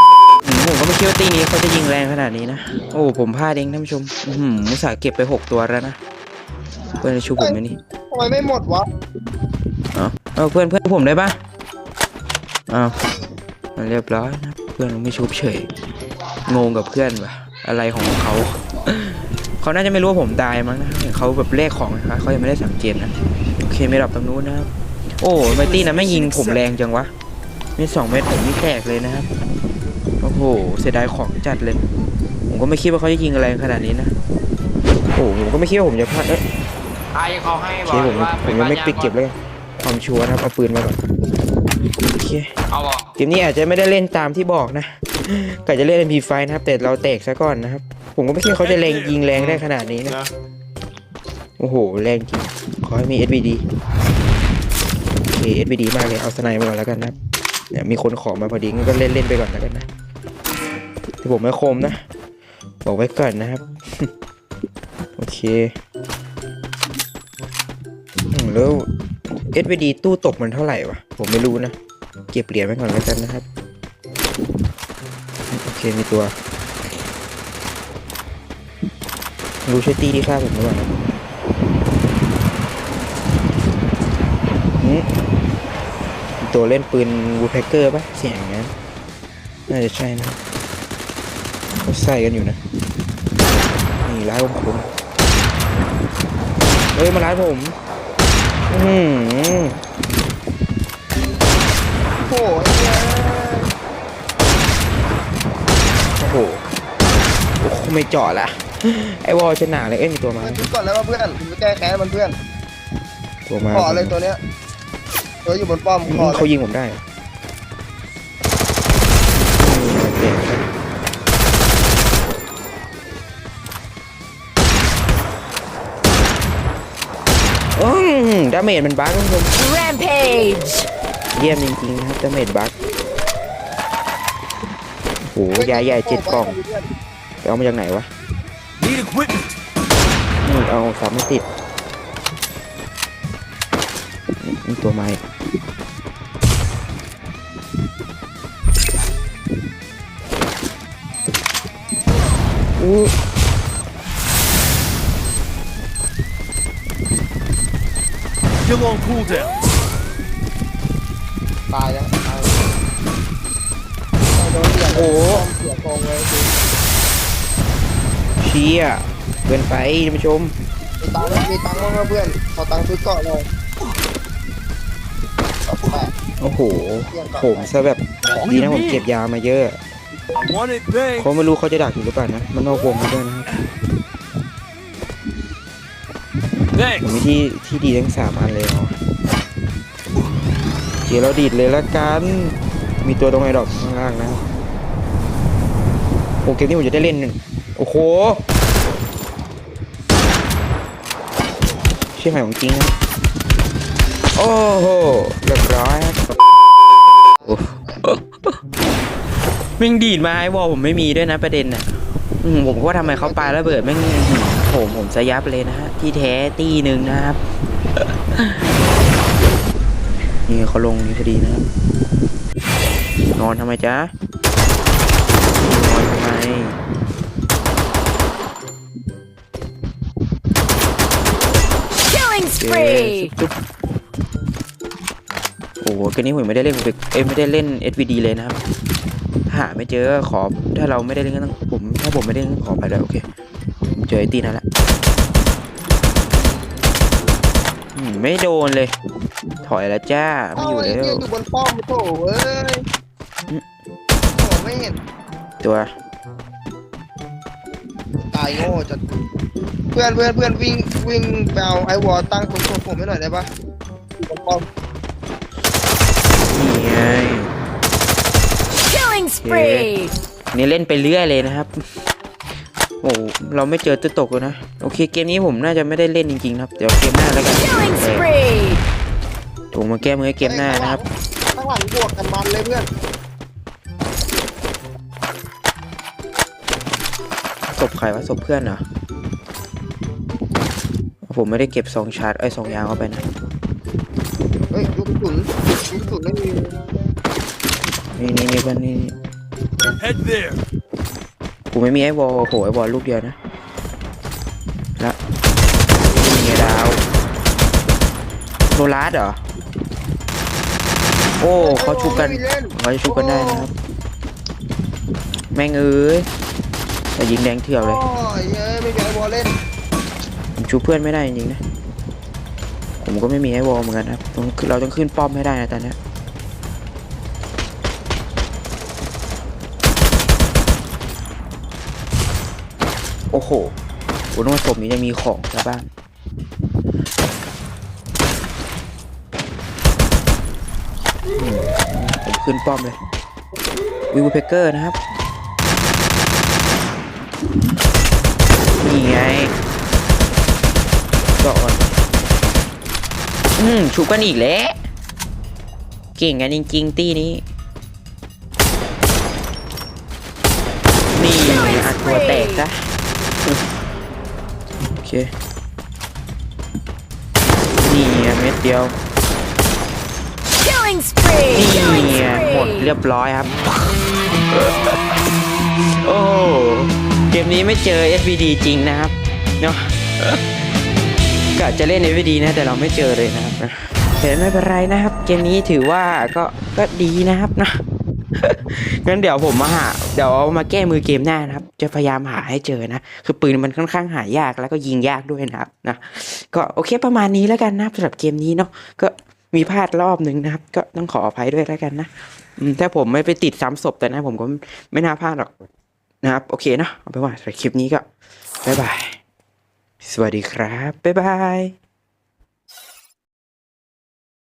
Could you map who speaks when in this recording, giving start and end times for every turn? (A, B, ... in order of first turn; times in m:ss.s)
0:00.4-0:06.0 A
0:07.0-0:07.8 A
0:08.1-0:08.9 B
0:09.9-0:11.4 A
0:12.7-0:13.0 A
0:13.8-0:15.7 A
0:16.5-0:27.1 A
0:27.8-0:29.3 A
0:30.2-0:31.8 A
0:32.5-0:34.1 A
0:35.1-0:36.4 A
0:37.1-0:39.1 C
0:37.8-0:41.0 A
0:42.1-0:42.5 A
0:42.7-0:43.1 C
0:43.2-0:50.2 A
0:49.3-0:50.3 C
0:51.6-0:53.6 A
0:55.2-0:57.1 A
0:57.7-0:59.8 A
1:01.2-1:02.0 A
1:02.8-1:04.1 A
1:05.2-1:05.7 A
1:08.3-1:11.7 A
1:12.3-1:13.4 A
1:15.5-1:16.3 A
1:19.6-1:20.9 A
1:24.8-1:25.1 A
1:26.4-1:28.7 A
1:29.7-1:30.4 A
1:31.8-1:32.6 A
1:34.0-1:34.9 A
1:36.9-1:37.8 A
1:38.7-1:39.8 A
1:42.2-1:43.7 B
1:46.2-1:46.7 A
1:47.6-1:50.7 A
1:50.4-1:52.3 B
1:53.4-1:54.1 A
1:53.7-1:54.4 B
1:55.4-1:56.5 B
1:56.1-1:57.0 A
1:59.6-2:00.7 A
2:07.8-2:09.6 A
2:09.6-2:10.9 D
2:11.3-2:12.7 A
2:15.2-2:16.5 A
2:15.5-2:16.9 B
2:17.4-2:18.1 A
2:18.8-2:19.5 E
2:20.4-2:21.4 A
2:24.4-2:25.2 A
2:32.8-2:33.1 A
2:38.9-2:39.3 E
2:41.7-2:42.6 B
2:44.3-2:46.5 B
2:44.9-2:45.4 A
2:48.4-2:50.5 A
2:51.0-2:53.4 B
2:55.7-2:56.1 B
2:56.4-2:59.8 A
2:57.1-2:57.7 B
3:00.6-3:01.1 E
3:01.1-3:03.5 A
3:06.9-3:08.9 A
3:11.0-3:14.4 A
3:16.4-3:18.4 A
3:22.2-3:22.9 A
3:24.3-3:26.2 A
3:27.4-3:28.6 A
3:29.8-3:37.4 A
3:32.8-3:33.8 B
3:38.3-3:38.7 A
3:40.4-3:41.7 A
3:43.3-3:44.1 A
3:45.6-3:46.8 A
3:52.1-3:53.3 D
3:52.5-3:53.5 A
3:55.8-3:58.6 A
3:59.5-4:03.2 A
4:03.9-4:04.6 A
4:07.9-4:08.9 A
4:09.6-4:11.2 A
4:10.6-4:12.8 B
4:14.3-4:15.0 B
4:15.6-4:15.9 A
4:18.3-4:19.0 B
4:19.9-4:23.5 B
4:24.2-4:24.6 B
4:26.4-4:27.5 A
4:28.8-4:30.1 D
4:29.4-4:29.9 A
4:30.5-4:31.7 A
4:33.0-4:38.3 A
4:37.6-4:38.8 D
4:39.7-4:41.0 A
4:40.4-4:42.9 B
4:47.7-4:48.8 A
4:51.2-4:53.2 A
4:54.7-4:56.8 B
4:58.2-4:59.1 A
5:00.2-5:00.4 E
5:01.7-5:03.4 A
5:06.1-5:07.0 A
5:08.7-5:09.4 A
5:11.4-5:13.7 A
5:11.6-5:13.7 B
5:15.5-5:16.3 A
5:17.2-5:18.0 A
5:17.8-5:19.5 B
5:20.6-5:21.6 A
5:23.0-5:26.0 A
5:33.3-5:33.7 A
5:34.3-5:35.9 A
5:41.4-5:43.0 A
5:44.1-5:45.0 A
5:48.8-5:49.5 A
5:51.3-5:51.9 A
5:53.6-5:54.8 A
5:56.2-5:57.4 A
6:01.1-6:02.9 A
6:01.5-6:02.6 D
6:04.8-6:05.3 A
6:07.8-6:09.0 A
6:10.6-6:12.9 D
6:11.5-6:13.9 A
6:14.5-6:15.0 A
6:15.8-6:20.6 A
6:21.5-6:27.8 A
6:28.4-6:45.5 A
6:46.2-6:48.0 A
6:48.6-6:49.2 A
6:50.0-6:51.7 A